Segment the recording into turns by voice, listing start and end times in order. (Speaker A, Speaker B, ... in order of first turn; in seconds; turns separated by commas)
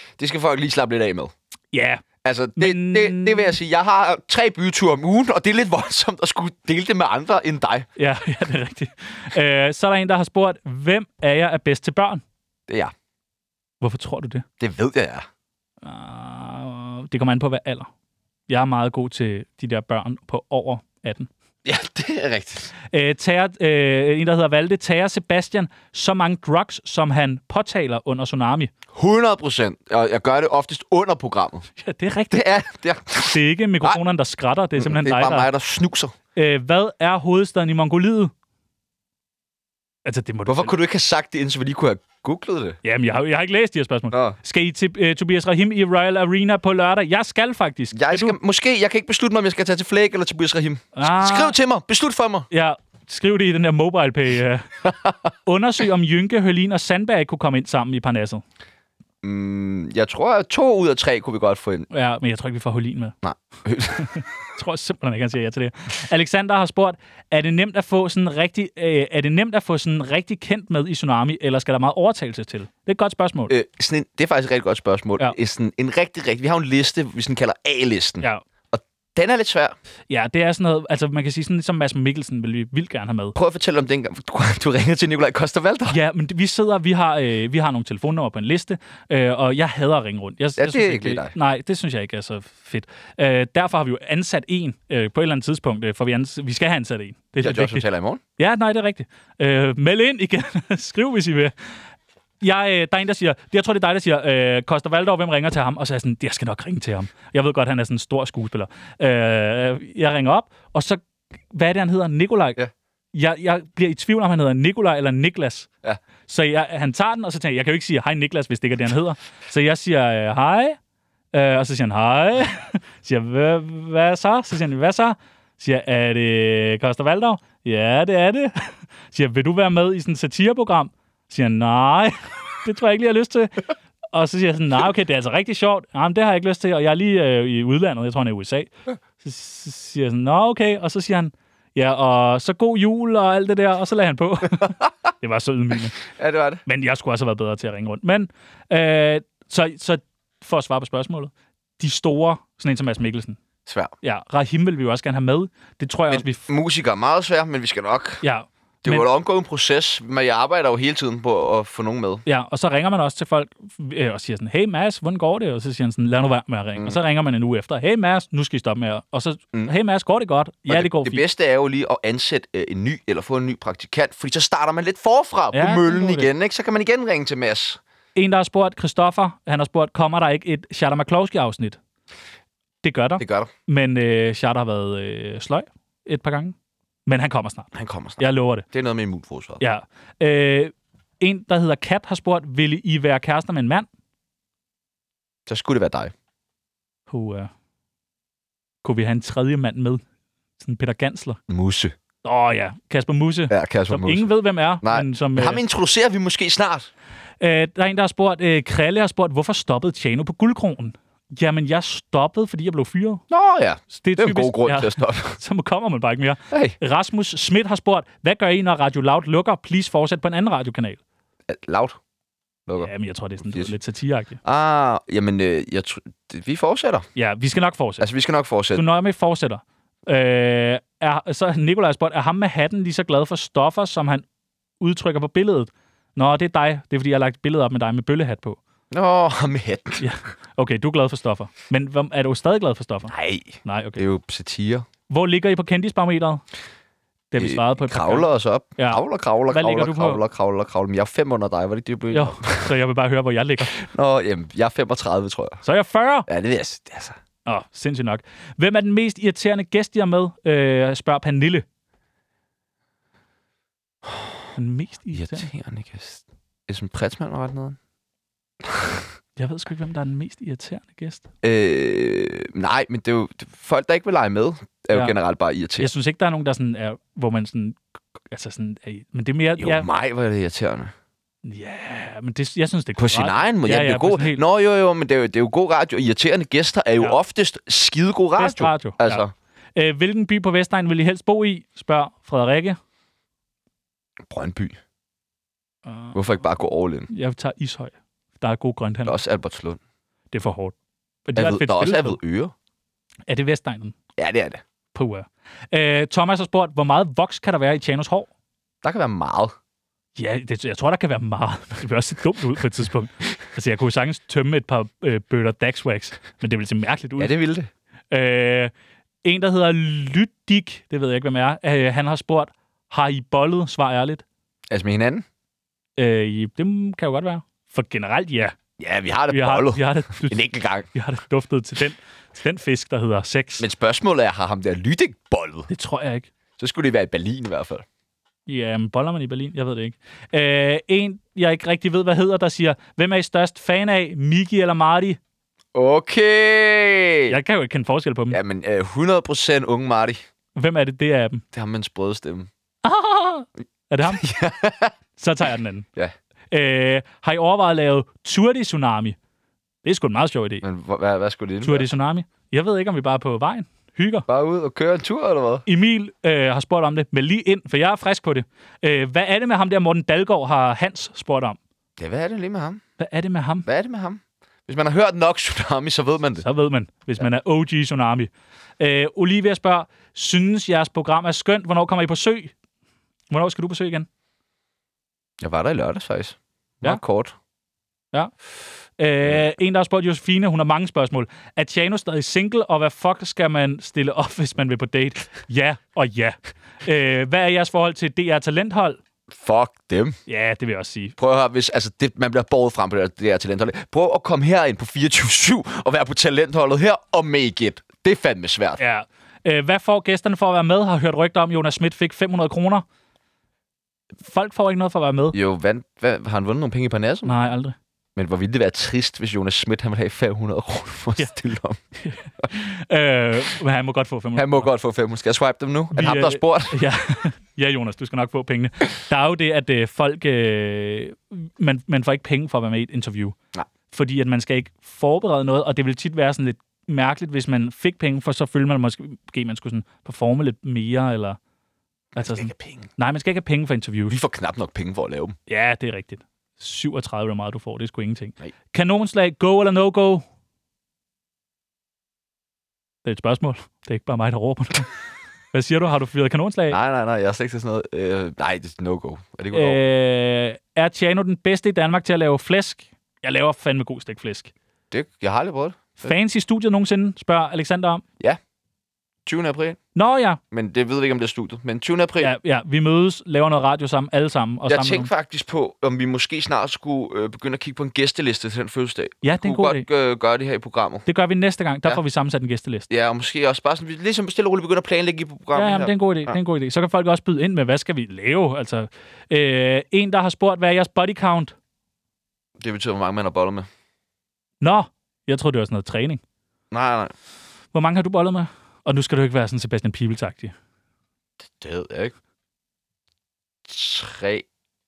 Speaker A: 0.2-1.3, Speaker B: 1.7-2.0, Speaker A: 2.2-7.9, Speaker B: 2.6-3.6, Speaker B: 8.0-12.2, Speaker A: 12.7-12.9, Speaker B: 13.8-14.4, Speaker A: 14.6-15.2, Speaker B: 15.8-17.9, Speaker B: 18.5-21.3, Speaker A: 21.6-22.7, Speaker B: 22.9-28.7, Speaker A: 28.9-31.7, Speaker B: 31.8-32.5, Speaker A: 32.3-34.0, Speaker B: 33.2-35.5, Speaker A: 34.8-36.1, Speaker B: 36.4-38.3, Speaker B: 40.0-40.8, Speaker A: 40.5-42.8, Speaker B: 42.8-48.4, Speaker A: 47.9-52.5, Speaker B: 51.0-51.5, Speaker B: 52.5-54.8, Speaker A: 54.8-55.1, Speaker B: 55.5-58.4, Speaker A: 59.2-61.9, Speaker B: 61.9-63.1, Speaker A: 63.2-64.1, Speaker B: 64.0-73.5, Speaker A: 73.5-79.8, Speaker B: 80.1-83.4, Speaker A: 83.4-86.0, Speaker B: 85.9-97.8, Speaker A: 90.6-91.3, Speaker A: 97.4-98.2, Speaker B: 98.4-101.5, Speaker B: 102.4-112.6, Speaker B: 113.1-115.7, Speaker B: 116.3-120.8, Speaker B: 121.3-146.0, Speaker A: 146.0-146.6, Speaker B: 146.7-153.4, Speaker A: 153.7-153.9, Speaker B: 154.0-156.4, Speaker A: 156.1-158.2, Speaker B: 158.2-159.1, Speaker A: 158.8-162.2, Speaker B: 162.3-171.2, Speaker A: 170.7-177.8, Speaker B: 175.5-176.3, Speaker B: 178.2-181.8, Speaker B: 182.8-186.6, Speaker A: 183.2-183.5, Speaker B: 187.1-188.7, Speaker A: 187.7-189.6, Speaker B: 189.6-193.9, Speaker A: 195.5-196.1, Speaker B: 197.1-197.5, Speaker B: 198.8-200.0, Speaker B: 200.6-201.4, Speaker A: 201.5-201.9, Speaker B: 202.2-205.6, Speaker A: 203.5-204.3, Speaker A: 204.8-206.9, Speaker B: 207.4-213.2, Speaker A: 213.3-215.4, Speaker B: 213.9-221.0, Speaker A: 216.5-216.8, Speaker A: 221.5-222.0, Speaker B: 222.8-224.4, Speaker A: 224.4-227.1, Speaker B: 227.2-228.1, Speaker A: 228.0-228.8, Speaker B: 228.7-234.3, Speaker B: 234.8-238.6, Speaker A: 238.9-240.0, Speaker B: 240.0-244.0, Speaker A: 243.1-244.8, Speaker B: 245.1-246.4, Speaker B: 247.3-250.2, Speaker A: 247.4-252.7, Speaker B: 252.1-253.8, Speaker A: 253.7-255.6, Speaker B: 255.6-256.3, Speaker A: 256.3-257.2, Speaker B: 257.5-261.6, Speaker A: 264.1-264.3, Speaker B: 264.6-265.5, Speaker A: 265.1-267.8, Speaker A: 268.6-269.1, Speaker B: 269.4-271.3, Speaker A: 271.4-275.9, Speaker B: 275.8-277.8, Speaker B: 278.3-279.9, Speaker A: 279.6-280.9, Speaker B: 281.4-284.4, Speaker A: 283.0-289.3, Speaker B: 288.4-289.2, Speaker B: 289.8-292.8, Speaker A: 294.3-294.8, Speaker B: 295.9-296.2, Speaker A: 296.1-297.1, Speaker B: 297.1-299.2, Speaker A: 299.1-299.8, Speaker B: 300.3-300.8, Speaker B: 301.3-302.2, Speaker A: 301.4-302.5, Speaker B: 303.3-303.9, Speaker A: 304.2-304.6, Speaker B: 304.9-308.3, Speaker A: 308.8-309.5, Speaker B: 310.2-317.4, Speaker A: 317.2-317.7, Speaker B: 318.1-318.7, Speaker B: 319.2-324.2, Speaker A: 324.7-325.2, Speaker B: 326.0-328.6, Speaker A: 328.8-330.9, Speaker B: 329.3-333.7, Speaker A: 333.6-335.7, Speaker B: 335.7-336.3, Speaker A: 336.6-337.9, Speaker B: 338.5-345.2, Speaker A: 345.7-347.4, Speaker B: 347.3-348.4, Speaker A: 348.3-350.2, Speaker B: 350.6-351.4, Speaker A: 351.5-352.5, Speaker B: 352.8-354.3, Speaker A: 354.1-354.9, Speaker B: 355.2-355.9, Speaker B: 356.5-359.2, Speaker B: 359.8-360.7, Speaker A: 360.6-361.9, Speaker B: 361.6-364.3, Speaker A: 364.3-365.6, Speaker B: 365.7-371.6, Speaker A: 372.0-372.8, Speaker B: 373.0-373.7, Speaker A: 373.7-376.4, Speaker B: 376.4-382.5, Speaker B: 383.3-384.1, Speaker A: 385.4-387.4, Speaker B: 389.0-399.0, Speaker A: 399.3-400.2, Speaker B: 400.3-401.1, Speaker A: 401.2-408.8, Speaker B: 408.8-412.8, Speaker B: 414.2-415.4, Speaker A: 415.3-417.3, Speaker B: 417.2-417.8, Speaker A: 418.2-421.8, Speaker B: 422.0-424.7, Speaker A: 424.4-426.8, Speaker B: 425.9-433.4, Speaker B: 433.9-441.4, Speaker A: 442.1-442.9, Speaker B: 442.2-444.2, Speaker A: 444.1-445.4, Speaker B: 445.5-450.2, Speaker B: 453.1-454.9, Speaker B: 455.5-456.8, Speaker A: 456.7-459.8, Speaker B: 459.5-464.5, Speaker A: 464.9-466.1, Speaker B: 466.0-468.0, Speaker A: 469.3-469.8, Speaker B: 469.9-470.4, Speaker A: 470.5-472.3, Speaker B: 472.2-475.1, Speaker A: 474.7-481.1, Speaker B: 479.2-479.9, Speaker B: 481.1-482.9, Speaker A: 482.9-486.4, Speaker B: 485.6-491.5, Speaker A: 492.6-493.7, Speaker B: 494.6-496.2, Speaker A: 496.7-497.1, Speaker B: 497.7-500.5, Speaker A: 501.5-502.1, Speaker A: 503.7-504.5